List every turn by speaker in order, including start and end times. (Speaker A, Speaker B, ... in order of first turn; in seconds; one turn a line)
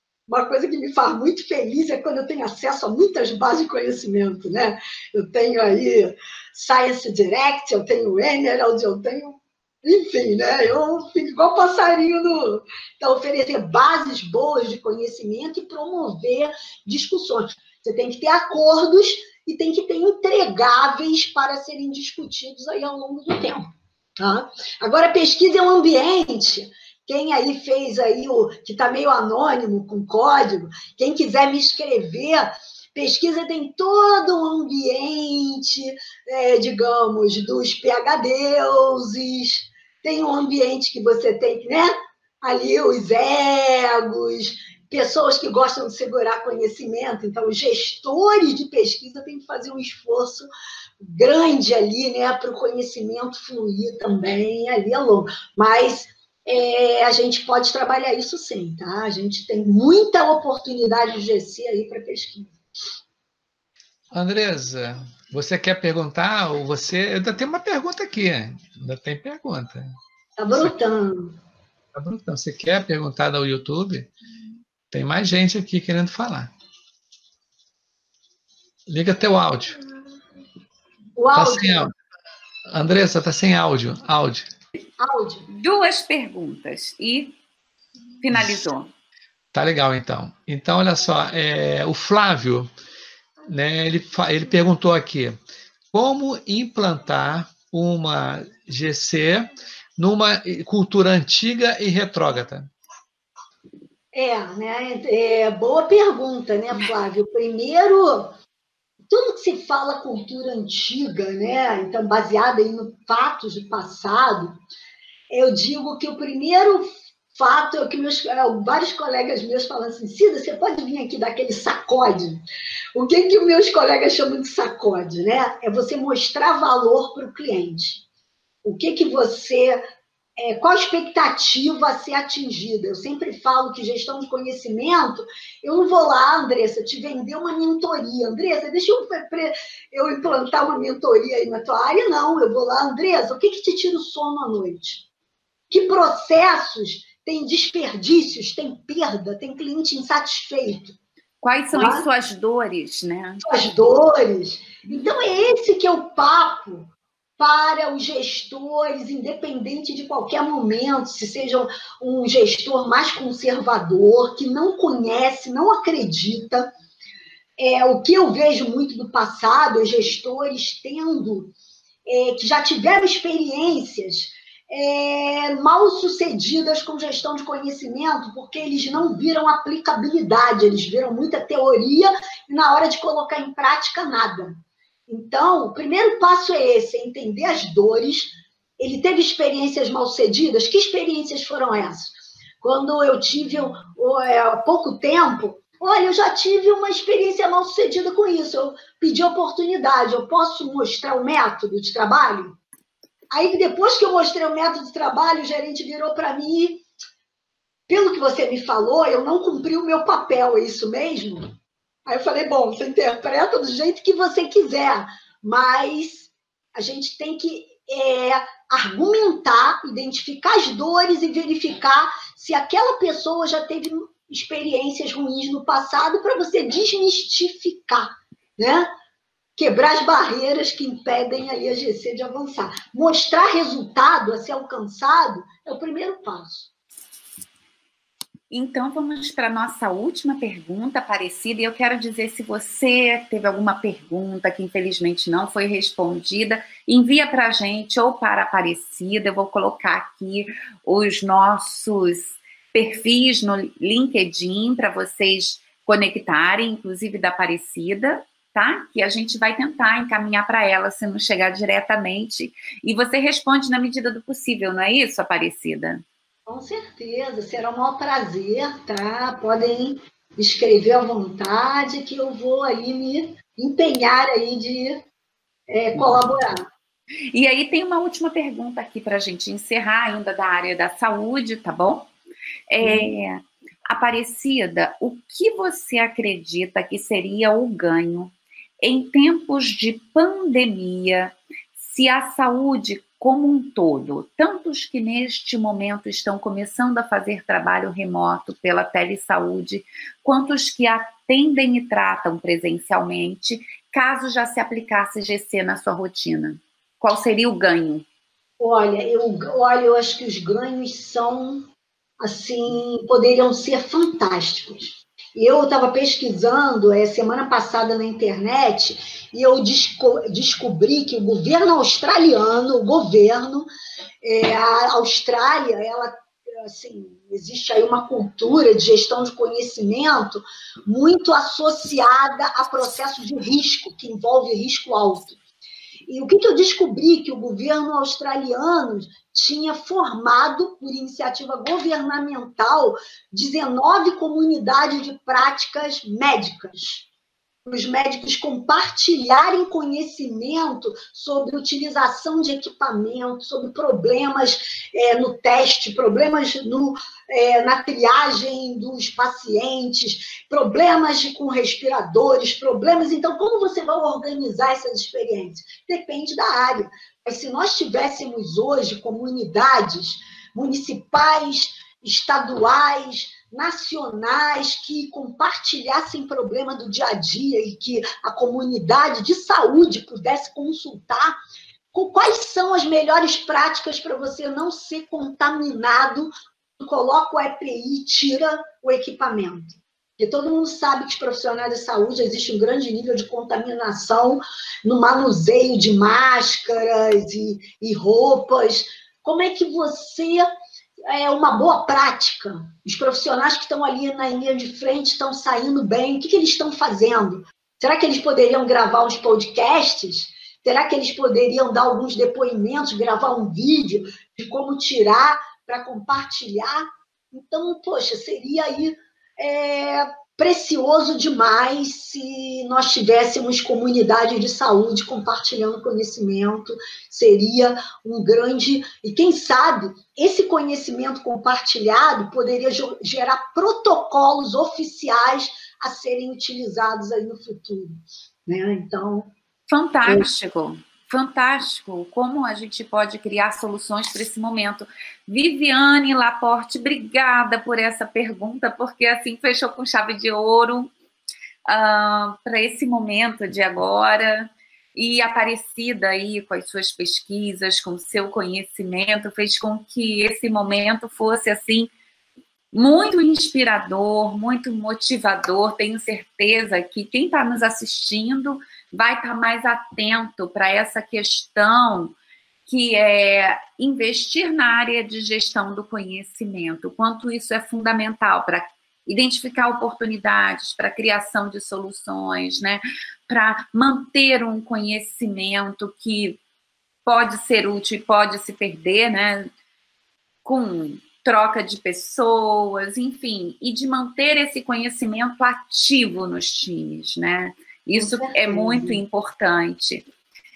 Speaker A: 0.3-23.7
Speaker A: 24.2-50.5
Speaker A: 51.0-62.5
Speaker B: 64.1-70.0
Speaker A: 70.4-71.4
Speaker B: 71.9-74.1
Speaker B: 74.9-76.5
Speaker B: 78.9-79.8
Speaker A: 81.2-81.9
Speaker B: 81.3-81.9
Speaker B: 82.7-84.5
Speaker A: 85.0-85.5
Speaker C: 85.5-87.3
Speaker C: 88.2-88.9
Speaker B: 89.5-92.7
Speaker B: 93.5-95.4
Speaker B: 95.9-102.7
Speaker A: 104.1-108.3
Speaker A: 109.1-114.6
Speaker A: 115.3-122.4
Speaker A: 122.9-128.0
Speaker A: 128.6-129.8
Speaker A: 130.4-145.1
Speaker A: 145.7-151.0
Speaker C: 151.4-153.4
Speaker A: 151.7-152.1
Speaker A: 153.4-166.7
Speaker A: 167.6-171.5
Speaker A: 172.1-202.6
Speaker A: 203.3-206.8
Speaker A: 207.9-211.5
Speaker A: 212.1-228.9
Speaker A: 229.6-236.7
Speaker C: 238.5-266.0
Speaker A: 266.4-275.0
Speaker A: 275.7-276.7
Speaker C: 277.3-282.1
Speaker C: 282.7-283.4
Speaker A: 282.8-283.1
Speaker C: 283.9-308.1
Speaker A: 308.6-311.7
Speaker A: 312.2-323.7
Speaker A: 324.2-335.4
Speaker A: 336.1-347.1
Speaker A: 347.6-381.4
Speaker A: 381.9-400.5
Speaker A: 401.1-439.3
Speaker C: 439.7-450.9
Speaker C: 451.7-461.9
Speaker C: 462.7-472.1
Speaker C: 472.7-486.4
Speaker C: 487.1-489.5
Speaker C: 490.4-500.1
Speaker A: 497.9-499.0